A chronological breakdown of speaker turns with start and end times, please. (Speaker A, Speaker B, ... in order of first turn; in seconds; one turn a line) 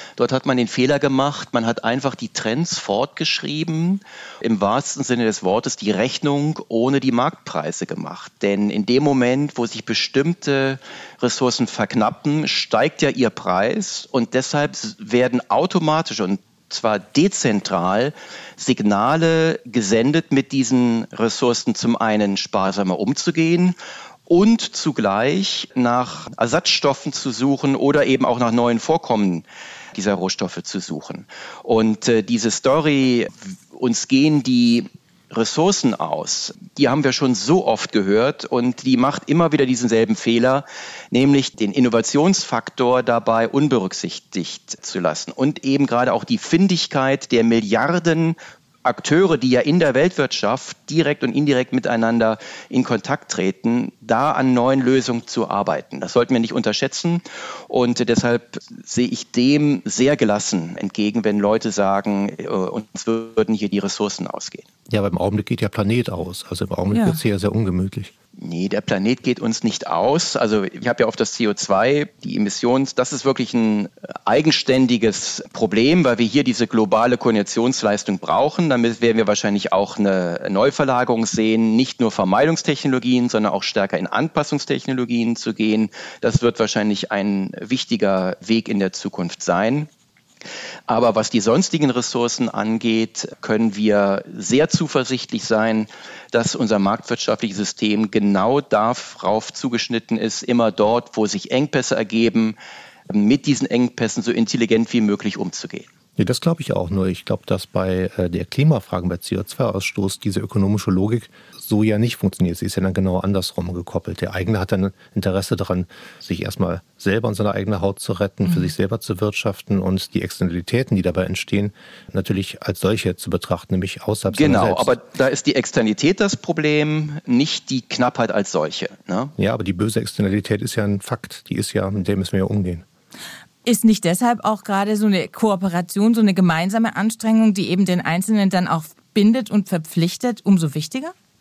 Speaker A: 0.2-23.8
Speaker A: 24.3-64.7
Speaker B: 64.9-68.1
Speaker C: 66.9-67.2
Speaker A: 68.4-89.9
Speaker A: 90.9-102.5
Speaker A: 103.1-105.9
Speaker B: 106.2-125.0
Speaker A: 124.3-129.3
Speaker B: 129.4-132.8
Speaker C: 133.6-141.1